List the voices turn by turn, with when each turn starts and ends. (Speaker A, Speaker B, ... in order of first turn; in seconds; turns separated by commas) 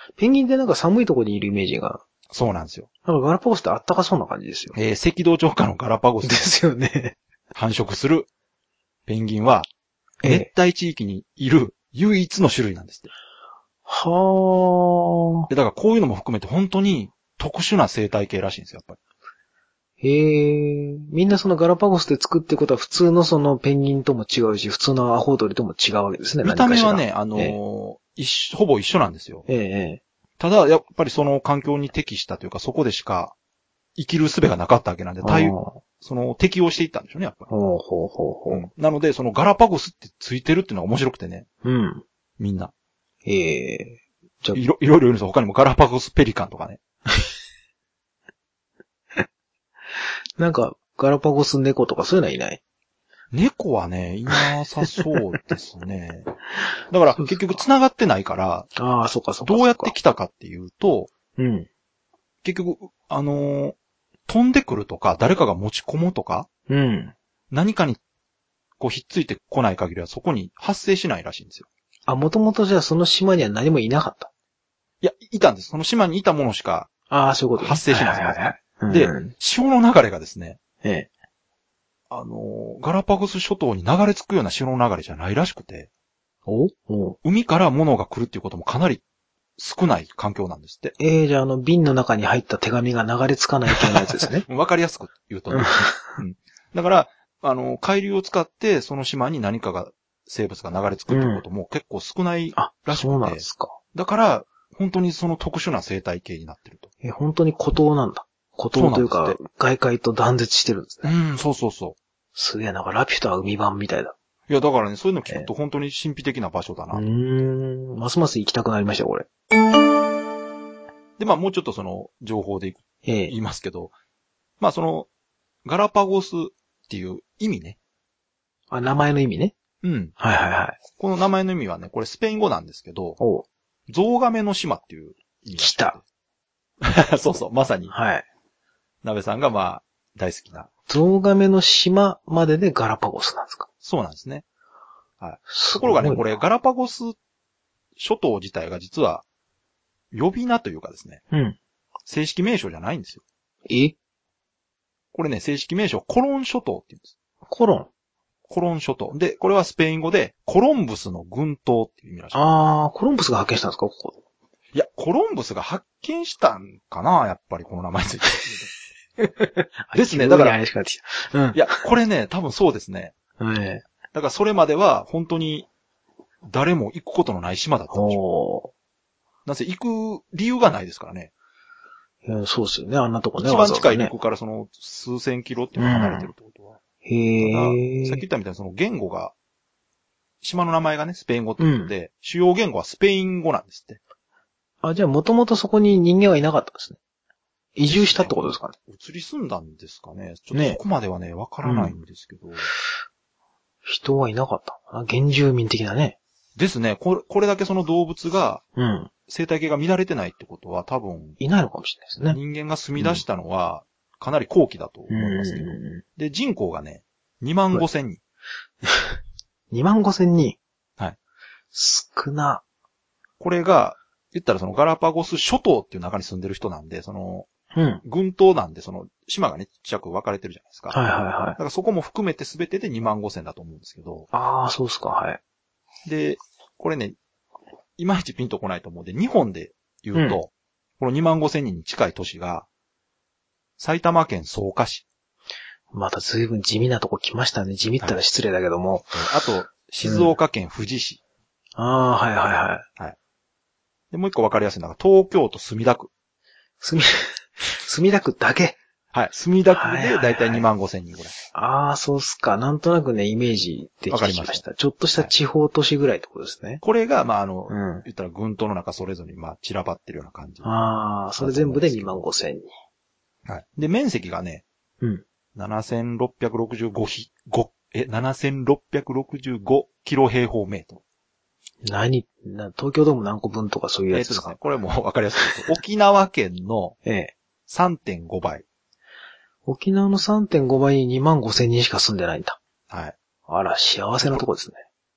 Speaker A: 0.1-2.0, Speaker B: 2.3-2.9, Speaker A: 3.0-4.7, Speaker B: 4.7-6.5, Speaker A: 6.2-7.2, Speaker B: 7.5-8.3, Speaker B: 9.1-9.7, Speaker A: 10.2-10.5, Speaker B: 10.2-13.1, Speaker A: 13.8-15.5, Speaker B: 15.5-19.0, Speaker A: 20.0-27.6, Speaker B: 26.4-29.4, Speaker A: 29.5-30.0, Speaker B: 30.4-33.3, Speaker B: 34.0-37.5, Speaker A: 35.2-35.8, Speaker A: 37.5-38.6, Speaker B: 38.5-41.5, Speaker A: 41.6-42.0, Speaker B: 42.4-42.7, Speaker A: 43.2-44.6, Speaker B: 44.5-46.8, Speaker A: 50.0-52.6, Speaker B: 53.3-56.3, Speaker B: 56.9-58.7, Speaker A: 57.2-57.6, Speaker A: 58.8-60.0, Speaker B: 59.4-61.1, Speaker A: 61.4-61.7, Speaker B: 62.4-63.8, Speaker B: 64.3-66.5, Speaker A: 66.7-67.1, Speaker B: 67.5-68.0, Speaker B: 68.8-71.7, Speaker A: 72.1-74.3, Speaker B: 75.0-76.9, Speaker A: 77.1-79.3, Speaker B: 77.6-80.6, Speaker A: 80.8-81.1, Speaker B: 82.1-85.9, Speaker A: 86.5-87.2, Speaker B: 87.2-89.0, Speaker B: 89.6-90.9, Speaker A: 91.0-94.5, Speaker B: 93.7-103.4, Speaker A: 95.5-96.1, Speaker A: 101.1-101.4, Speaker A: 102.5-103.8, Speaker B: 103.9-106.9, Speaker A: 107.0-111.1, Speaker B: 108.7-109.4, Speaker B: 111.0-112.0, Speaker A: 112.3-114.1, Speaker B: 114.5-117.0, Speaker A: 116.9-119.3, Speaker B: 121.2-123.9, Speaker A: 123.0-123.3, Speaker B: 124.6-125.1, Speaker B: 125.6-127.8, Speaker A: 128.7-129.5, Speaker B: 129.8-130.1, Speaker A: 130.2-130.8, Speaker B: 131.0-133.2, Speaker A: 133.2-133.4, Speaker B: 133.9-136.0, Speaker A: 135.6-136.0, Speaker B: 136.8-137.9, Speaker A: 137.9-138.2, Speaker B: 139.0-140.7, Speaker A: 140.9-143.7, Speaker B: 143.8-144.4, Speaker B: 145.2-147.2, Speaker A: 145.5-146.2, Speaker B: 148.0-149.2, Speaker B: 150.1-151.2, Speaker A: 151.3-151.6, Speaker B: 152.1-153.2, Speaker A: 153.7-153.9, Speaker B: 155.1-157.1, Speaker A: 157.5-157.9, Speaker B: 158.5-162.4, Speaker A: 162.3-164.2, Speaker B: 164.7-168.7, Speaker A: 169.2-171.8, Speaker B: 169.9-170.6, Speaker B: 171.5-173.1, Speaker A: 173.4-173.8, Speaker B: 174.1-175.7, Speaker B: 176.4-178.2, Speaker A: 177.9-178.7, Speaker B: 179.4-181.3, Speaker A: 182.2-184.1, Speaker B: 183.4-186.8, Speaker A: 185.8-186.3, Speaker A: 187.0-188.2, Speaker B: 187.4-189.3, Speaker B: 190.4-194.0, Speaker A: 191.6-191.9, Speaker A: 194.8-197.0, Speaker A: 197.7-198.7, Speaker B: 197.8-202.7, Speaker A: 200.5-200.8, Speaker A: 201.6-202.0, Speaker A: 203.8-206.2, Speaker B: 206.6-208.6, Speaker A: 208.8-209.1, Speaker B: 209.3-211.4, Speaker A: 211.4-212.4, Speaker B: 212.3-218.2, Speaker A: 213.0-213.2, Speaker A: 215.1-216.0, Speaker A: 218.8-219.2, Speaker A: 219.7-220.6, Speaker A: 221.7-222.6, Speaker B: 223.4-227.5, Speaker A: 227.7-228.0, Speaker B: 228.0-231.0, Speaker A: 230.9-231.6, Speaker B: 231.6-234.3, Speaker A: 234.3-235.4, Speaker B: 236.1-237.2, Speaker B: 238.0-242.7, Speaker A: 240.1-240.4, Speaker B: 243.8-245.0, Speaker A: 245.9-249.3, Speaker B: 249.1-251.2, Speaker A: 250.0-250.3, Speaker A: 251.8-252.8, Speaker B: 254.1-256.1, Speaker A: 256.8-258.8, Speaker B: 259.1-261.3, Speaker A: 259.7-260.7, Speaker A: 261.5-266.8, Speaker B: 264.1-264.6, Speaker B: 266.8-270.7, Speaker A: 267.7-268.1, Speaker A: 270.6-272.7, Speaker B: 271.4-272.2, Speaker B: 273.4-274.6, Speaker B: 275.5-281.0, Speaker A: 281.8-284.5, Speaker B: 284.1-286.9, Speaker A: 287.0-287.3, Speaker B: 287.7-288.6, Speaker A: 289.6-292.6, Speaker B: 292.9-293.1, Speaker A: 293.5-294.8